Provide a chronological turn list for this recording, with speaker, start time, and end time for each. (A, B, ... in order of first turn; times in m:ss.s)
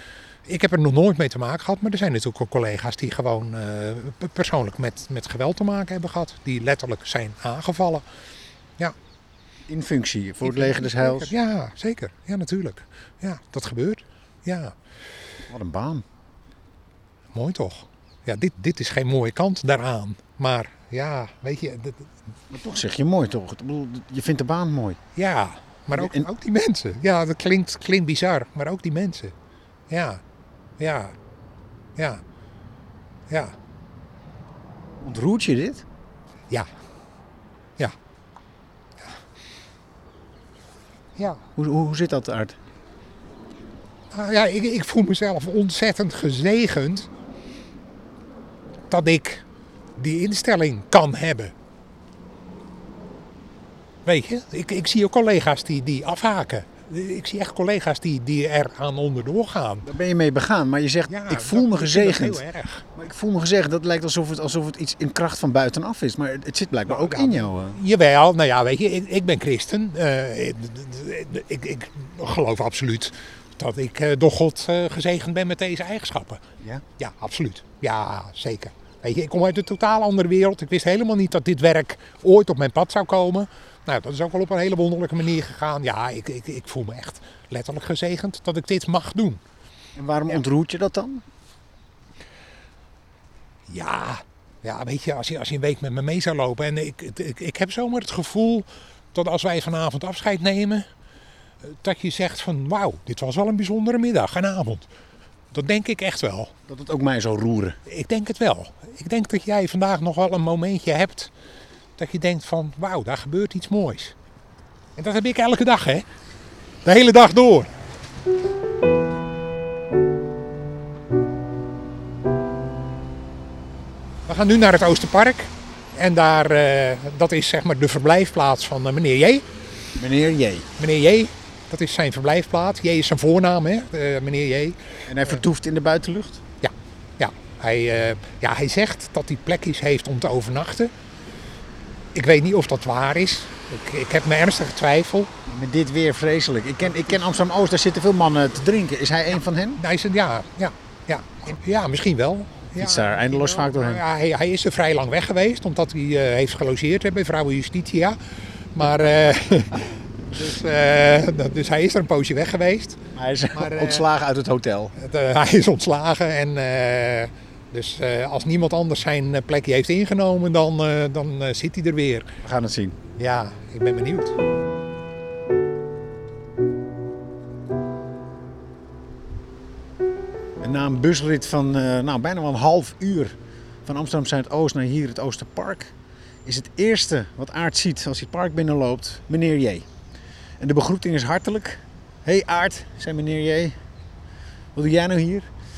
0:00.4-0:08.0 A
0:09.7-0:11.3 B
0:10.4-0:14.7 A
0:15.5-0:16.0 B
0:17.3-0:22.1 A
0:22.5-0:25.0 B
0:25.2-0:29.3 A
0:25.9-0:26.3 B
0:29.9-0:30.2 A
0:30.8-0:31.1 A
0:32.0-0:32.2 A
0:33.3-0:33.5 A
0:35.0-0:35.8 B
0:41.2-0:41.4 A
0:41.6-0:42.6 B
0:44.1-0:47.1 A
0:48.9-0:49.4 A
0:50.0-0:51.5 A
0:54.0-0:59.9 A
0:59.8-1:02.4 B
1:01.1-1:02.8 A
1:02.9-1:07.8 B
1:06.9-1:16.4 A
1:17.0-1:29.4 A
1:30.0-1:31.2 B
1:33.7-1:40.8 A
1:41.6-1:44.9 A
1:45.5-1:46.5 A
1:46.7-1:47.8 B
1:47.8-1:51.3 A
1:52.0-1:54.1 A
1:55.0-1:56.0 A
1:56.8-1:57.7 A
2:04.2-2:09.4 A
2:10.0-2:10.7 B
2:10.8-2:15.4 A
2:15.1-2:16.4 B
2:16.6-2:20.9 A
2:22.1-2:25.3 A
2:25.4-2:29.8 B
2:26.8-2:27.2 A
2:29.8-2:38.2 A
2:32.8-2:34.0 B
2:38.7-2:44.1 A
2:43.1-2:44.9 B
2:45.0-2:52.3 A
2:52.4-2:53.0 B
2:53.2-2:54.4 A
3:00.6-3:05.9 B
3:06.4-3:09.9 B
3:10.6-3:13.8 B
3:14.7-3:15.5 B